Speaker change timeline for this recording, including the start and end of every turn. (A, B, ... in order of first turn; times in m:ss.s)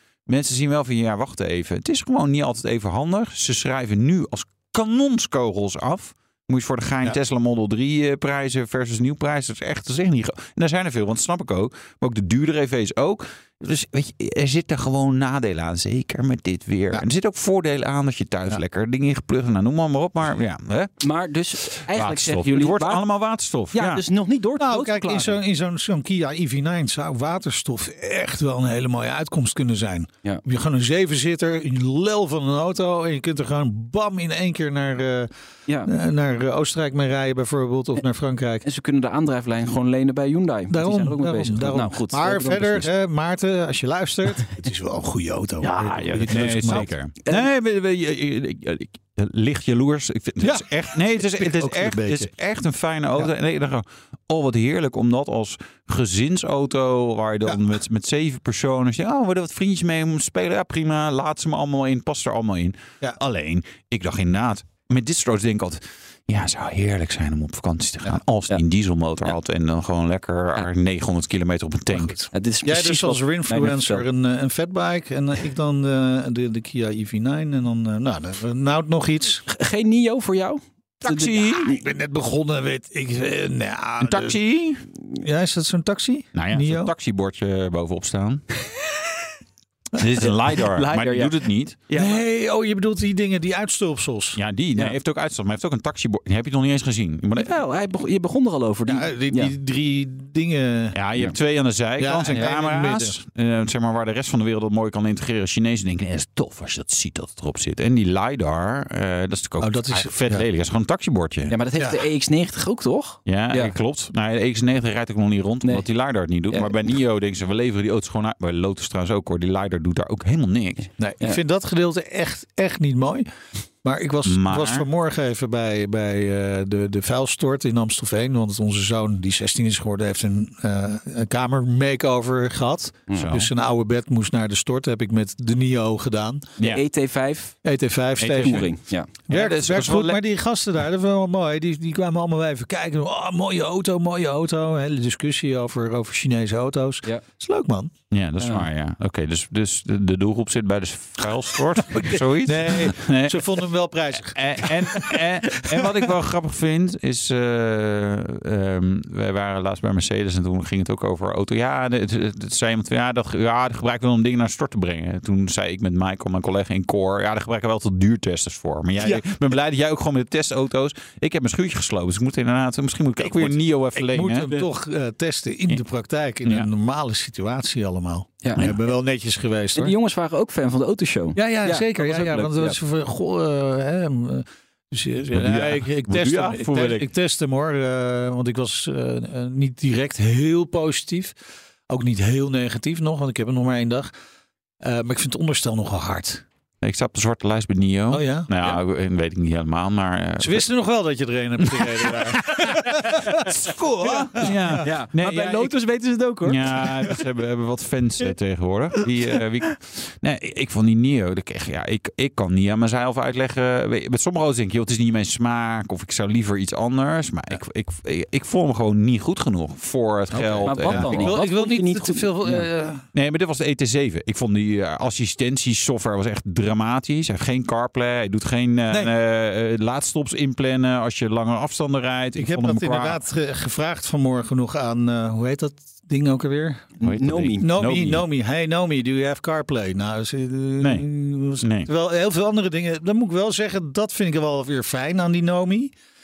0:00.3-0:20.9 A
0:21.0-0:23.0 B
0:21.8-0:24.0 A
0:23.7-0:25.4 B
0:24.6-0:35.3 C
0:35.8-0:38.6 C
0:38.6-0:42.9 B
0:40.7-0:46.9 C
0:45.6-1:12.2 A
0:46.7-0:47.4 B
0:50.4-0:52.3 C
1:11.9-1:19.4 C
1:12.3-1:14.1 B
1:19.5-1:21.8 B
1:21.0-1:21.7 A
1:21.6-1:24.4 C
1:24.0-1:24.8 A
1:25.1-1:26.9 C
1:26.3-1:28.4 A
1:30.0-1:31.8 A
1:30.2-1:31.4 B
1:31.9-1:32.2 B
1:31.9-1:34.4 C
1:34.4-1:37.5 A
1:37.4-1:39.5 B
1:38.9-1:41.0 C
1:40.9-1:51.6 A
1:42.0-1:43.2 C
1:49.6-1:50.4 C
1:51.5-1:53.8 B
1:53.3-2:00.9 A
1:56.5-1:56.8 B
2:01.0-2:03.3 C
2:03.8-2:16.5 C
2:04.2-2:04.9 A
2:13.2-2:13.5 A
2:16.6-2:17.6 B
2:17.6-2:18.7 C
2:18.2-2:18.7 A
2:18.4-2:19.1 B
2:19.3-2:20.2 A
2:19.3-2:27.9 C
2:28.1-2:33.5 A
2:28.4-2:28.6 B
2:31.9-2:36.1 C
2:34.2-2:54.5 A
2:53.4-3:00.0 C
2:58.4-2:58.7 B
2:59.8-3:02.8 B
3:01.4-3:11.4 C
3:05.3-3:07.1 A
3:11.9-3:14.1 C
3:14.8-3:16.4 C
3:16.8-3:20.7 A
3:18.1-3:18.5 C
3:20.4-3:24.9 C
3:21.7-3:25.7 A
3:24.8-3:27.2 B
3:26.4-3:41.4 A
3:40.3-3:43.1 C
3:40.6-3:42.7 B
3:43.1-3:53.2 A
3:52.4-3:56.9 C
3:57.0-3:57.8 B
3:57.0-3:58.2 A
3:57.6-4:05.9 C
4:00.8-4:01.1 A
4:01.6-4:01.9 A